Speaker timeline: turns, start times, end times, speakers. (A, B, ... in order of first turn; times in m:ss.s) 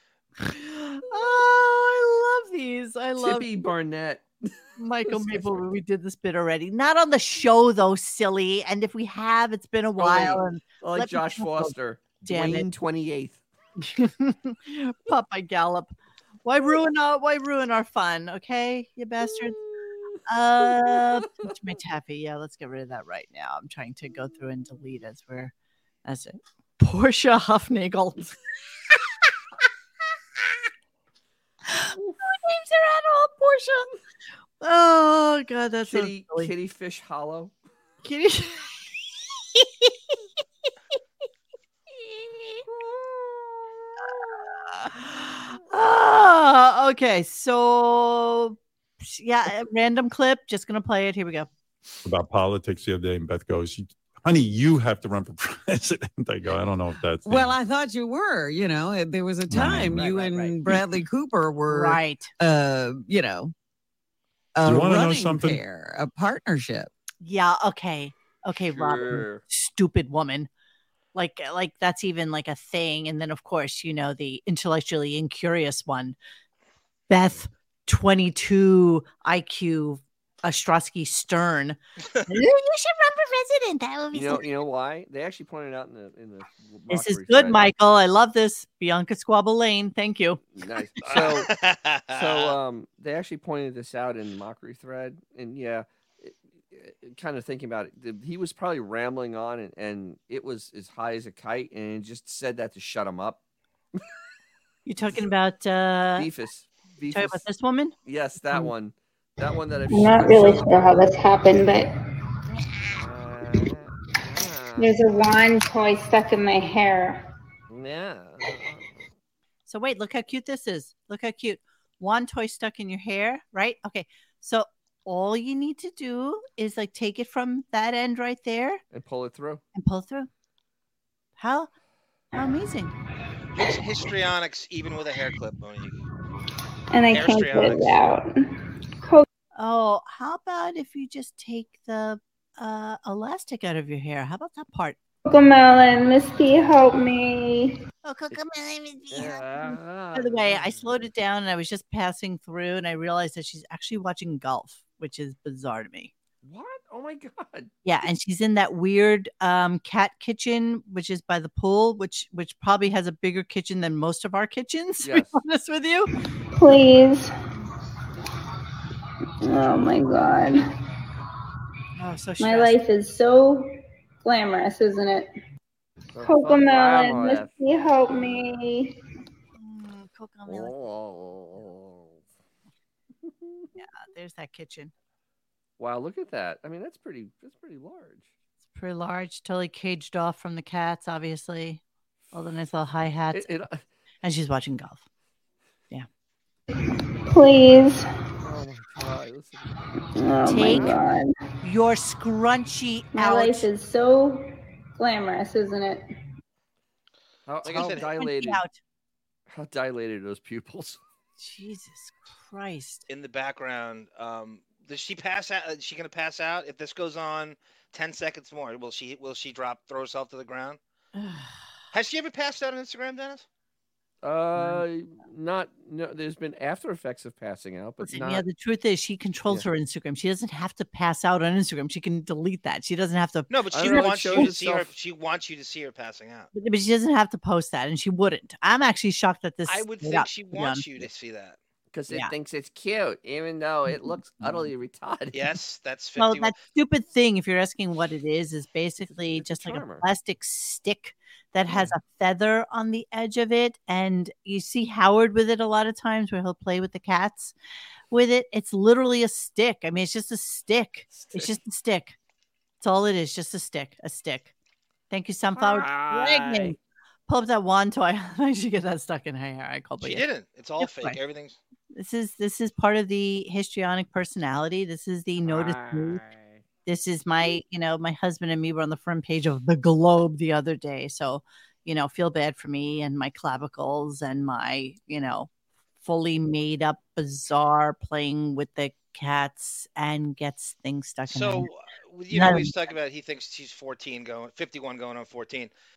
0:00.4-0:03.4 A
0:03.2-0:05.6 B
0:04.8-0:11.7 A
0:10.0-0:13.4 B
0:12.2-0:12.7 A
0:13.8-0:15.9 A
0:16.4-0:19.6 A
0:19.2-0:21.5 B
0:20.3-0:25.5 A
0:26.0-0:28.3 A
0:31.7-0:33.9 A
0:34.6-0:36.5 A
0:35.9-0:37.5 B
0:38.0-0:38.7 A
0:39.5-0:39.9 A
0:42.7-0:44.0 B
0:44.0-0:51.5 A
0:52.0-0:57.5 C
0:57.2-1:03.5 D
0:59.5-1:00.1 C
1:01.7-1:02.3 A
1:04.5-1:06.9 D
1:04.6-1:05.6 C
1:07.2-1:10.5 A
1:08.7-1:09.4 B
1:11.1-1:16.2 A
1:17.1-1:24.4 A
1:24.1-1:27.7 B
1:26.9-1:30.4 A
1:30.5-1:31.5 B
1:31.0-1:32.6 E
1:32.1-1:43.4 B
1:44.8-1:46.3 A
1:46.2-1:47.4 B
1:47.1-1:47.9 A
1:48.0-1:51.0 B
1:49.9-1:51.9 F
1:52.9-1:54.9 B
1:54.8-1:57.2 F
1:57.7-1:59.0 B
1:59.7-2:08.8 A
2:08.9-2:09.6 B
2:09.7-2:10.3 A
2:11.4-2:11.7 A
2:12.3-2:12.9 A
2:13.5-2:16.0 E
2:16.9-2:18.4 F
2:17.1-2:18.0 E
2:19.5-2:25.0 A
2:25.2-2:27.8 F
2:28.0-2:36.1 A
2:29.1-2:31.0 B
2:36.4-2:37.7 B
2:37.8-2:46.1 A
2:45.0-2:45.3 B
2:46.6-2:47.3 F
2:49.4-2:50.6 F
2:52.0-2:52.8 A
2:52.4-2:55.3 F
2:56.1-2:57.5 B
2:56.2-2:59.0 F
2:59.6-3:00.7 A
3:00.5-3:02.2 B
3:03.2-3:03.7 B
3:03.8-3:04.9 A
3:05.8-3:08.3 B
3:08.7-3:11.8 A
3:12.3-3:13.5 A
3:13.3-3:13.8 B
3:14.2-3:15.0 A
3:16.7-3:18.0 F
3:18.4-3:19.9 B
3:20.1-3:21.3 F
3:20.5-3:21.0 A
3:20.7-3:21.0 B
3:21.6-3:23.7 A
3:23.1-3:26.0 F
3:27.5-3:28.6 B
3:27.6-3:28.1 E
3:27.7-3:28.8 A
3:29.5-3:31.0 B
3:31.4-3:33.0 A
3:33.1-3:40.8 E
3:41.1-3:41.6 A
3:41.9-3:43.4 E
3:44.2-3:48.4 B
3:44.6-3:44.8 A
3:48.0-3:54.5 A
3:53.5-3:56.5 E
3:53.7-3:54.9 B
3:56.5-4:01.0 A
3:59.7-4:01.6 E
4:01.9-4:05.6 B
4:04.0-4:04.6 A
4:05.3-4:06.6 E
4:06.2-4:17.5 A
4:09.1-4:10.0 B
4:11.7-4:11.9 B
4:18.1-4:22.2 A
4:21.1-4:21.5 B
4:22.8-4:24.5 A
4:25.1-4:26.8 A
4:25.5-4:26.7 B
4:27.3-4:30.2 A
4:30.0-4:31.6 E
4:30.8-4:31.2 A
4:31.9-4:36.2 A
4:35.4-4:36.6 B
4:36.8-4:45.5 A
4:46.0-4:51.7 A
4:51.3-4:55.7 E
4:52.3-4:52.7 A